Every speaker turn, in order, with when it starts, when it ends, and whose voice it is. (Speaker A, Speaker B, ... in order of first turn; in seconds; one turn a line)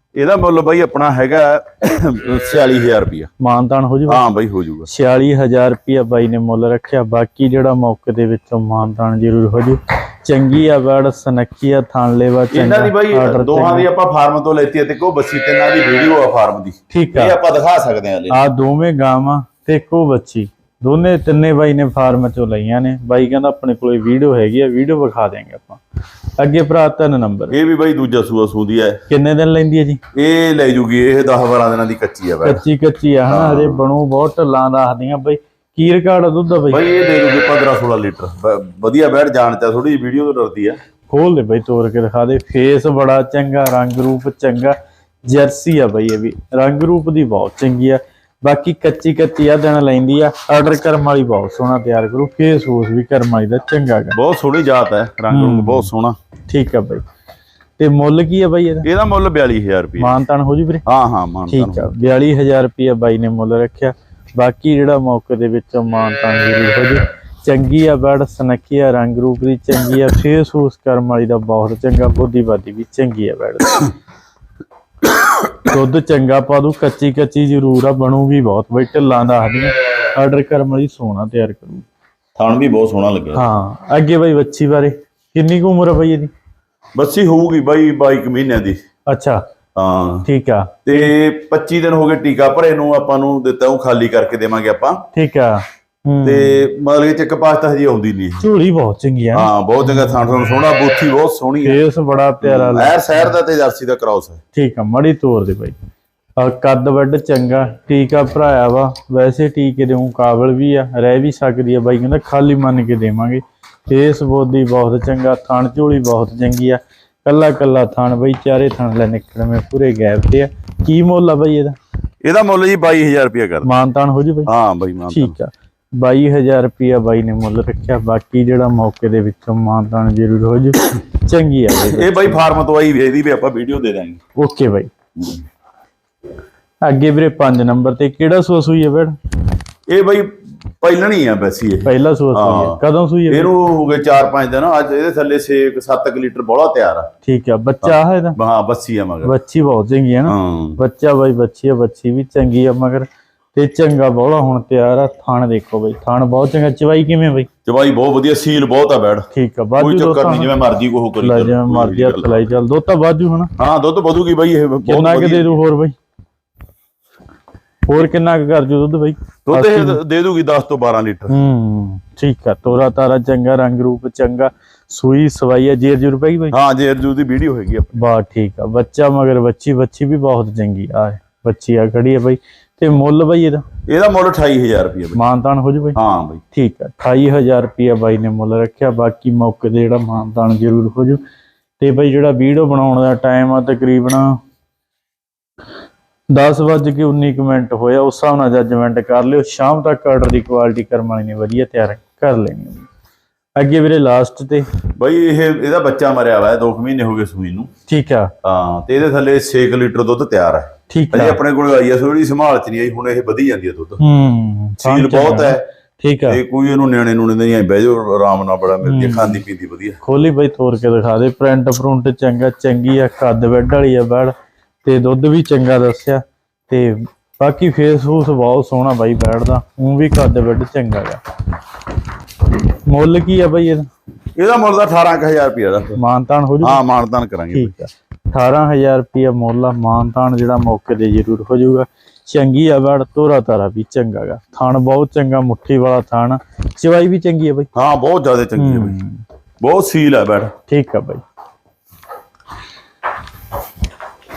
Speaker A: 0.2-3.3
Speaker B: 3.4-4.2
Speaker A: 4.1-4.9
Speaker B: 4.9-13.9
Speaker A: 12.5-18.4
Speaker B: 16.9-17.4
Speaker B: 18.3-25.8
Speaker B: 26.4-27.6
Speaker A: 27.5-29.0
Speaker B: 29.1-30.0
Speaker A: 30.1-32.6
Speaker B: 32.4-36.8
Speaker A: 33.3-33.8
Speaker A: 36.7-40.8
Speaker B: 41.1-54.2
Speaker A: 54.1-56.2
Speaker B: 55.3-55.9
Speaker B: 56.5-57.0
Speaker B: 57.8-58.9
Speaker A: 58.8-60.1
Speaker B: 60.0-60.8
Speaker A: 60.9-61.9
Speaker B: 61.5-73.9
Speaker B: 75.6-81.8
Speaker A: 82.4-83.4
Speaker B: 83.3-86.3
Speaker A: 87.0-88.8
Speaker B: 89.1-89.4
Speaker A: 89.8-90.3
Speaker B: 90.3-91.1
Speaker A: 90.9-95.0
Speaker B: 95.1-96.7
Speaker A: 96.2-98.5
Speaker B: 98.4-99.5
Speaker A: 99.3-101.8
Speaker B: 101.6-103.3
Speaker A: 102.4-104.4
Speaker B: 104.5-105.8
Speaker B: 106.4-121.8
Speaker A: 122.2-123.7
Speaker B: 123.6-124.5
Speaker A: 124.5-125.4
Speaker B: 125.1-132.4
Speaker A: 131.8-134.2
Speaker B: 134.4-134.9
Speaker B: 136.8-139.2
Speaker A: 139.9-147.1
Speaker B: 141.8-143.5
Speaker B: 147.3-148.4
Speaker A: 147.8-149.3
Speaker B: 149.2-157.5
Speaker A: 150.3-150.8
Speaker A: 157.7-162.5
Speaker B: 159.3-160.5
Speaker B: 161.2-163.5
Speaker A: 163.6-165.6
Speaker B: 164.9-165.9
Speaker B: 167.9-170.0
Speaker A: 169.5-171.4
Speaker B: 171.3-176.6
Speaker A: 176.5-178.0
Speaker B: 177.9-183.6
Speaker A: 183.9-185.2
Speaker B: 185.2-186.0
Speaker A: 185.9-186.4
Speaker B: 186.5-191.2
Speaker B: 191.8-194.4
Speaker B: 196.3-202.9
Speaker B: 203.6-204.7
Speaker A: 204.9-207.7
Speaker B: 207.9-208.3
Speaker A: 208.4-214.0
Speaker B: 210.9-211.4
Speaker B: 214.0-216.4
Speaker A: 214.8-215.7
Speaker A: 216.3-220.0
Speaker B: 218.8-219.4
Speaker B: 220.0-224.3
Speaker B: 224.8-231.2
Speaker B: 232.9-233.9
Speaker A: 234.4-236.0
Speaker B: 236.0-236.8
Speaker A: 236.6-237.7
Speaker B: 237.5-247.7
Speaker A: 247.8-249.0
Speaker B: 248.6-249.2
Speaker A: 249.6-250.5
Speaker B: 250.7-251.2